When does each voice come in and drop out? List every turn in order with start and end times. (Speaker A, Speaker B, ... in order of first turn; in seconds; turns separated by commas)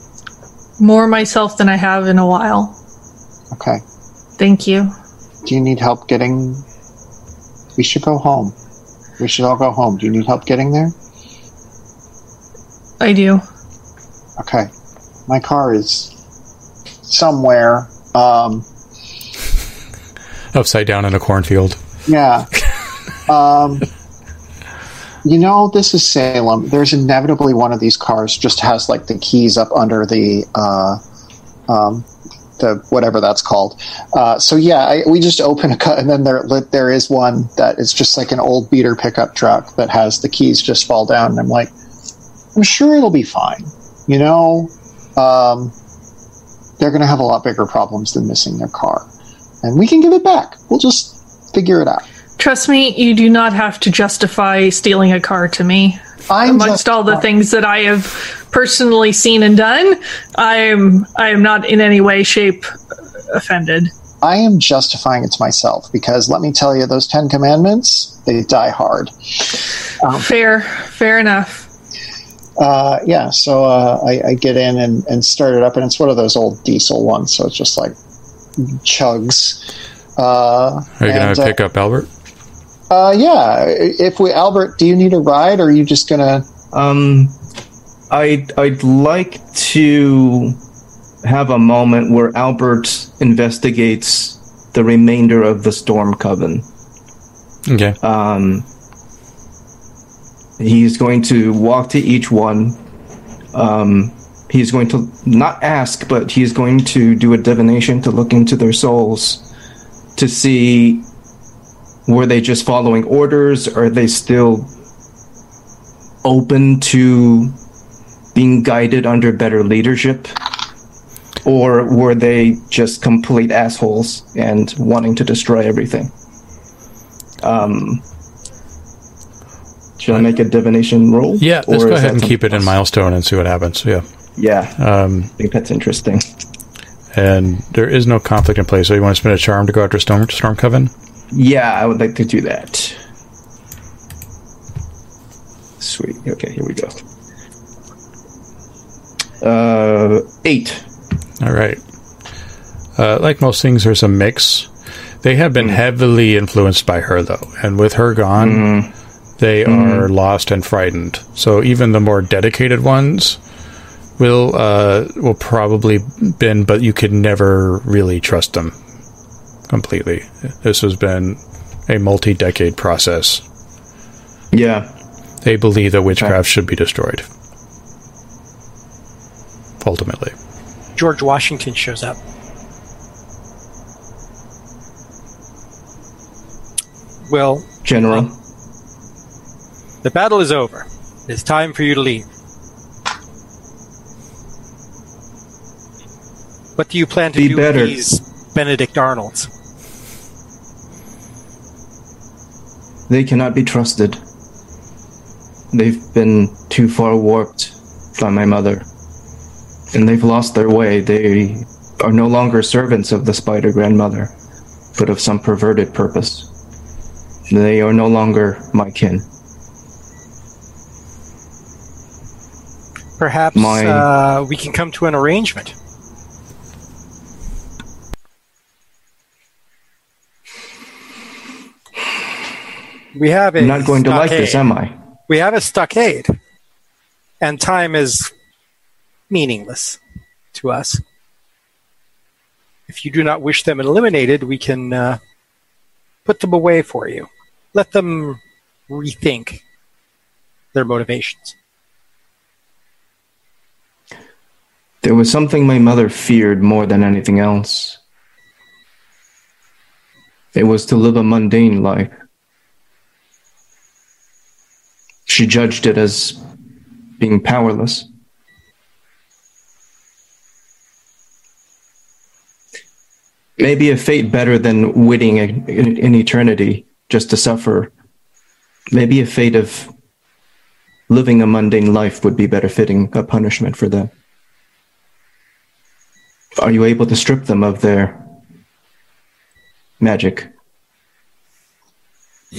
Speaker A: 0.8-2.8, Speaker B: 3.5-3.8, Speaker A: 4.4-4.9, Speaker B: 5.5-6.7, Speaker B: 7.8-8.6, Speaker B: 9.2-10.9, Speaker A: 13.0-13.4, Speaker B: 14.4-14.7, Speaker B: 15.3-16.1, Speaker B: 17.1-18.7, Speaker C: 20.5-21.8, Speaker B: 22.1-22.5, Speaker B: 23.3-23.9, Speaker B: 25.2-31.0, Speaker B: 31.7-32.1, Speaker B: 32.6-41.7, Speaker B: 42.5-45.7, Speaker B: 46.8-49.1, Speaker B: 49.6-52.0, Speaker A: 52.4-62.6, Speaker B: 56.3-57.2, Speaker A: 63.3-63.9, Speaker B: 64.2-70.3, Speaker A: 70.1-71.7, Speaker B: 72.6-78.0, Speaker B: 78.6-79.6, Speaker B: 80.2-81.6, Speaker C: 81.0-82.1, Speaker B: 82.9-86.5, Speaker D: 86.7-87.4, Speaker D: 88.1-90.6, Speaker D: 91.2-96.7, Speaker C: 97.7-98.0, Speaker D: 98.0-98.7, Speaker D: 100.6-102.8, Speaker D: 103.5-109.4, Speaker D: 110.2-111.1, Speaker D: 112.1-114.7, Speaker D: 116.2-117.6, Speaker D: 118.3-120.3, Speaker D: 121.4-126.1, Speaker D: 127.4-128.0, Speaker D: 130.0-132.7, Speaker C: 131.4-134.1, Speaker D: 134.4-134.8, Speaker C: 134.8-135.3, Speaker D: 135.4-136.2, Speaker C: 137.1-140.9, Speaker D: 141.3-143.0, Speaker D: 145.8-146.9, Speaker D: 149.4-150.8, Speaker C: 151.4-151.8, Speaker C: 153.0-154.7, Speaker C: 155.2-158.7, Speaker D: 158.4-158.9, Speaker C: 159.4-163.4, Speaker D: 159.7-160.1, Speaker C: 164.2-168.8, Speaker C: 169.7-173.4, Speaker D: 174.5-174.9, Speaker C: 175.4-177.3, Speaker C: 179.8-180.3, Speaker E: 180.9-182.2, Speaker E: 187.3-188.3, Speaker D: 187.8-188.4, Speaker E: 190.0-192.2, Speaker E: 196.8-199.5, Speaker D: 197.3-198.1, Speaker D: 203.1-204.2, Speaker D: 205.7-208.9, Speaker D: 209.9-214.3, Speaker D: 215.0-216.5, Speaker D: 217.5-219.3, Speaker E: 223.2-225.8, Speaker D: 223.6-224.1, Speaker E: 233.1-234.7, Speaker D: 233.6-235.0, Speaker E: 235.3-236.4, Speaker E: 237.4-238.3, Speaker E: 239.3-240.0, Speaker E: 240.5-241.0, Speaker E: 242.9-245.2, Speaker E: 246.2-249.6, Speaker E: 250.7-251.6, Speaker D: 255.0-258.0, Speaker D: 260.5-262.1, Speaker D: 265.3-266.4, Speaker D: 267.2-268.1, Speaker D: 273.6-277.9, Speaker D: 278.9-279.9, Speaker D: 281.1-284.1, Speaker D: 286.6-288.2, Speaker D: 290.0-290.5